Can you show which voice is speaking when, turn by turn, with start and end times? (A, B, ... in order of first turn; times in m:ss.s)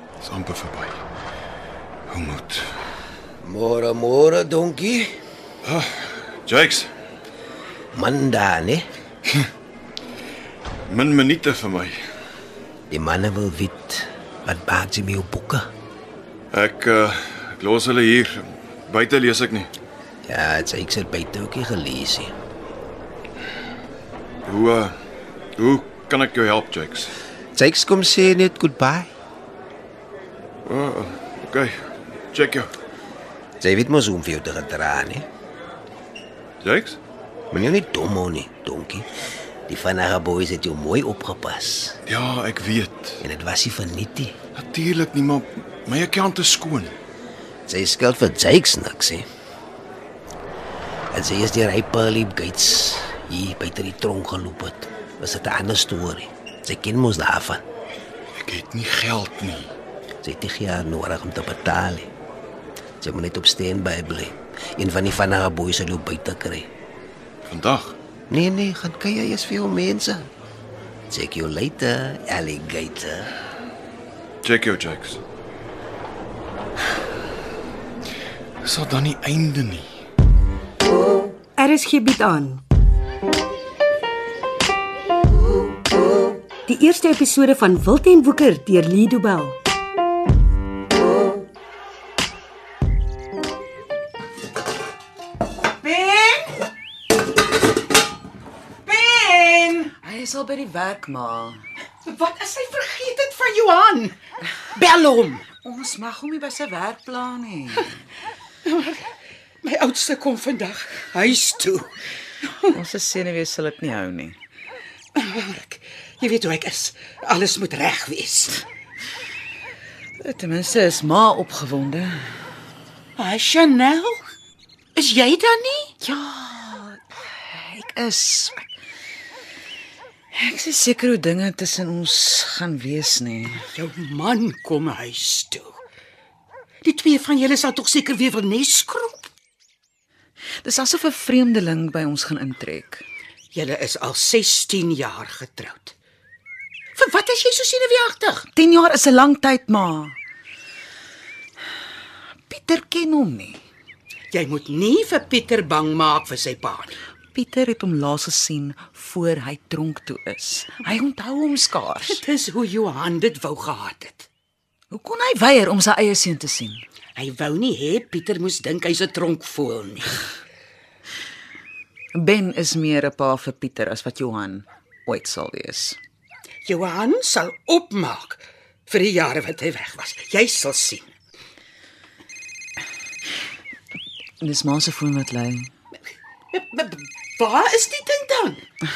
0:00.2-0:01.0 A
0:02.1-0:02.6 A
0:03.4-0:05.1 B
0:05.6-0:06.9 A
0:07.9-0:08.8 B
0:10.9-0:11.9 A
0:12.9-0:15.7 B
0:16.5-0:19.7 A
0:20.2-0:22.3 B
0:24.4-0:24.9 A
0:25.6-0:27.1 A
0:27.6-0:29.1 B
0:30.7-0:31.7 A
0:32.3-0:32.7 A
0:33.6-0:35.3 B
0:36.6-0:37.0 A
0:37.5-0:39.0 B
0:39.7-0:42.0 B
0:42.1-0:43.2 A
0:43.2-0:44.4 B
0:44.6-0:46.9 A
0:47.7-0:49.2 B
0:51.1-0:57.6 B
0:58.4-0:59.7 A
1:00.2-1:02.1 B
1:03.0-1:06.7 B
1:07.5-1:08.0 A
1:08.3-1:10.3 B
1:11.1-1:13.3 B
1:14.4-1:15.2 A
1:18.6-1:19.9 A
1:21.6-1:22.6 C
1:26.7-1:29.6 C
1:35.8-1:36.5 D
1:38.8-1:39.9 D
1:40.0-1:41.6 E
1:42.0-1:44.2 D
1:44.7-1:45.5 D
1:45.6-1:47.9 E
1:48.6-1:49.1 D
1:49.6-1:52.7 D
1:52.7-1:54.4 E
1:55.1-1:58.6 D
2:00.2-2:02.4 E
2:03.2-2:04.2 D
2:04.9-2:05.9 D
2:06.0-2:08.6 E
2:10.3-2:13.6 E
2:13.7-2:15.8 D
2:16.8-2:19.3 D
2:20.6-2:23.0 E
2:23.5-2:26.0 D
2:26.9-2:28.4 D
2:28.5-2:30.2 E
2:32.5-2:33.6 E
2:34.3-2:36.9 D
2:37.3-2:42.2 E
2:42.0-2:44.3 D
2:44.9-2:46.8 E
2:47.2-2:50.2 D
2:52.1-2:56.0 E
2:56.6-3:01.1 D
3:04.4-3:05.7 E
3:06.5-3:08.6 D